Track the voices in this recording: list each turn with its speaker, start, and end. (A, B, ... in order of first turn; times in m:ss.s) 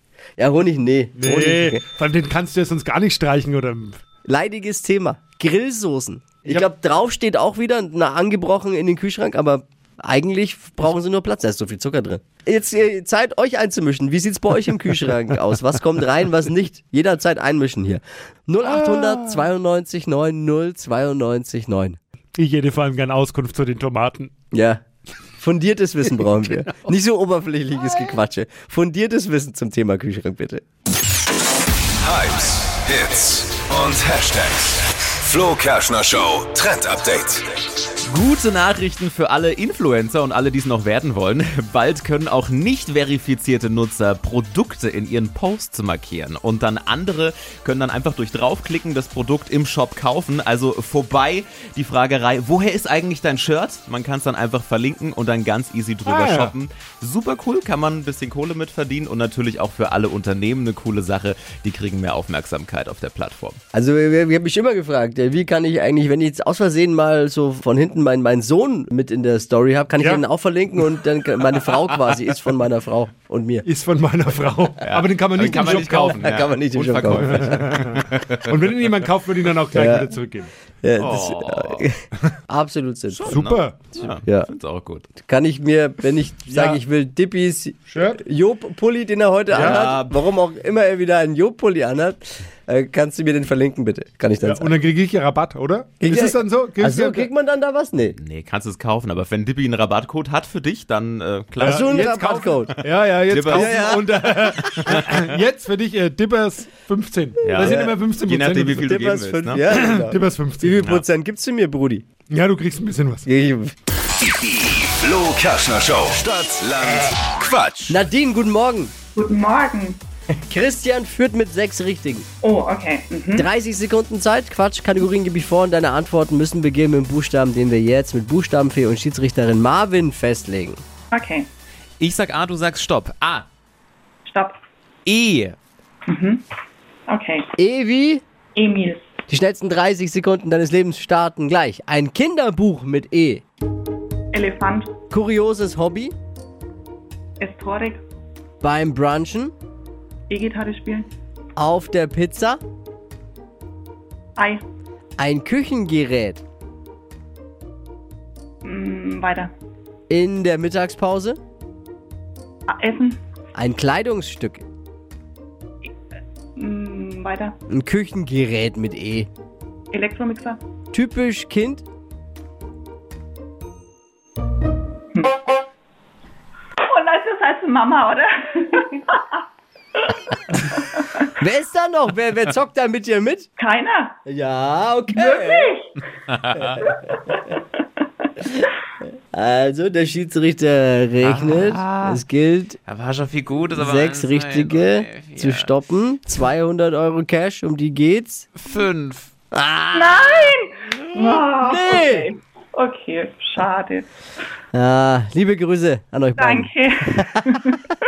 0:00.4-0:01.8 A
0:01.2-0:04.0 B
0:04.2-0:22.0 A
0:18.6-0:19.4 B
0:22.4-0:24.3 B
0:24.5-0:24.8 A
0:25.4-0:30.6 A
0:32.0-0:37.5 C
0:38.1-1:03.6 D
0:56.1-0:56.6 B
1:03.7-1:13.7 A
1:13.7-1:16.4 B
1:14.8-1:18.5 D
1:15.4-1:17.5 A
1:17.4-1:20.5 B
1:19.8-1:20.1 A
1:20.8-1:23.4 A
1:21.0-1:21.8 D
1:23.1-1:25.1 D
1:23.2-1:23.9 B
1:25.2-1:34.8 A
1:26.5-1:26.8 B
1:27.9-1:28.2 B
1:29.5-1:30.0 B
1:29.5-1:30.2 D
1:34.4-1:37.3 B
1:36.0-1:38.2 A
1:38.2-1:42.1 D
1:41.6-1:48.9 B
1:41.6-1:42.7 A
1:43.3-1:45.1 D
1:43.5-1:44.4 A
1:47.4-1:49.6 D
1:47.6-1:48.0 A
1:48.8-1:52.0 A
1:49.6-1:51.0 B
1:52.3-1:53.3 B
1:53.3-1:53.8 A
1:54.2-1:58.0 C
1:57.9-1:58.9 A
1:59.2-2:00.0 E
2:00.4-2:02.3 A
2:02.4-2:03.5 E
2:03.3-2:10.8 A
2:11.1-2:11.5 E
2:12.0-2:13.4 D
2:14.3-2:14.6 E
2:15.1-2:15.6 D
2:16.1-2:16.4 E
2:17.1-2:17.5 E
2:17.6-2:18.2 A
2:18.6-2:19.1 E
2:19.3-2:23.4 A
2:24.3-2:24.9 E
2:25.1-2:26.1 A
2:27.4-2:28.0 E
2:28.6-2:29.5 A
2:30.3-2:31.1 E
2:31.6-2:32.6 A
2:34.4-2:34.6 E
2:35.2-2:36.4 A
2:38.6-2:39.5 E
2:40.1-2:41.4 A
2:42.7-2:43.2 E
2:43.6-2:44.6 A
2:46.6-2:47.6 E
2:47.7-2:49.3 A
2:49.9-2:50.6 E
2:50.9-2:51.8 A
2:55.2-2:55.5 E
2:56.9-2:59.2 E
3:01.4-3:03.5 A
3:03.6-3:04.2 E
3:04.3-3:05.7 A
3:05.1-3:05.9 E
3:06.5-3:07.0 A
3:09.3-3:12.8 A
3:11.2-3:12.2 F
3:12.8-3:15.7 F
3:13.8-3:18.5 A
3:18.6-3:19.3 F
3:19.5-3:20.5 A
3:19.9-3:24.1 E
3:21.6-3:22.3 A
3:24.7-3:27.4 A
3:26.4-3:27.8 E